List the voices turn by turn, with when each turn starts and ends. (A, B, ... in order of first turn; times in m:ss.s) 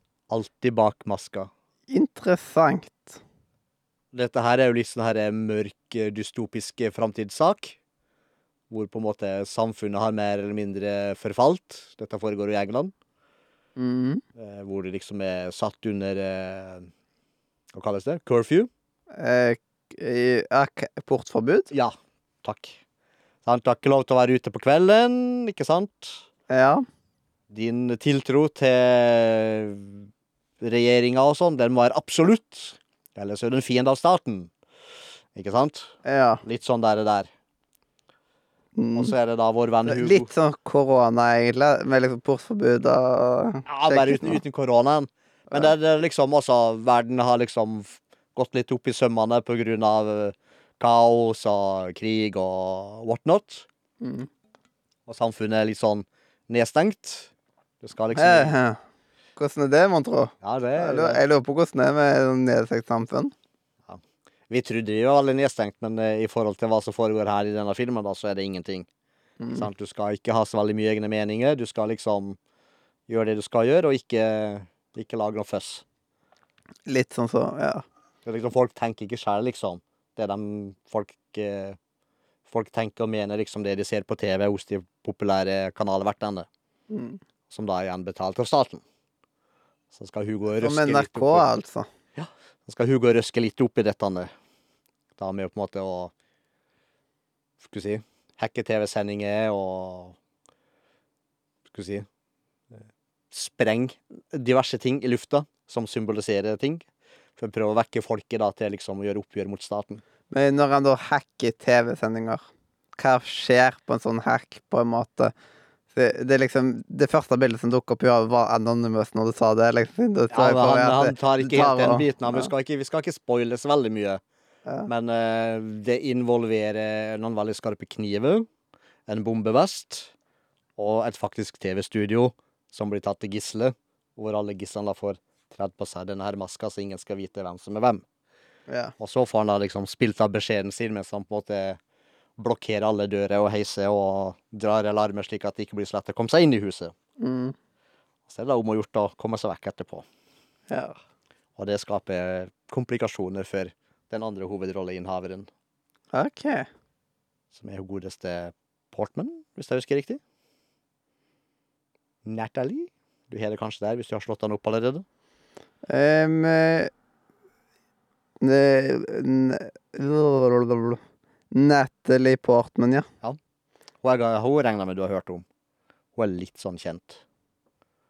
0:00.3-0:01.5 A
0:01.9-0:03.2 B
0:04.1-0:07.8 A
0:08.7-0:12.9 A
0:13.8-0:14.2 B
0:14.4-0:16.9 A
0:17.7-0:18.7 A
0:19.2-0:21.7 B
0:21.7-0:22.8 A
0:23.4-0:26.2 A
0:26.5-0:26.8 B
0:27.5-0:30.1 A
0:30.6-0:34.5 A
0:35.3-0:37.3 A
0:36.0-0:36.4 B
0:38.8-0:39.1 B
0:39.0-0:40.3 A
0:39.9-0:44.4 B
0:43.7-0:53.7 A
0:54.0-0:54.3 B
0:55.1-0:57.3 A
0:57.8-0:58.5 A
0:58.1-0:58.8 B
0:59.4-1:03.3 B
1:00.4-1:01.2 A
1:03.9-1:08.9 A
1:09.4-1:09.7 B
1:09.5-1:12.4 A
1:13.1-1:15.8 A
1:16.9-1:17.8 B
1:18.2-1:21.8 A
1:22.5-1:26.5 A
1:26.9-1:27.2 B
1:27.5-1:28.8 A
1:29.9-1:31.5 A
1:30.6-1:31.9 B
1:32.2-1:34.3 A
1:35.2-1:36.1 A
1:37.6-1:40.2 A
1:41.7-1:42.1 A
1:43.3-1:50.0 A
1:50.3-1:52.4 B
1:53.0-1:55.3 B
1:55.9-2:02.5 B
2:00.3-2:04.2 A
2:04.9-2:08.5 A
2:09.1-2:10.1 A
2:10.8-2:18.0 A
2:18.7-2:18.9 B
2:19.0-2:21.8 A
2:22.4-2:26.9 A
2:27.2-2:27.6 B
2:28.3-2:30.1 A
2:30.7-2:31.0 B
2:31.6-2:35.5 A
2:36.1-2:36.7 B
2:37.5-2:40.2 A
2:42.2-2:45.0 A
2:45.9-2:46.9 B
2:48.4-2:51.0 B
2:51.5-2:53.1 B
2:54.0-2:55.4 A
2:56.2-2:57.2 A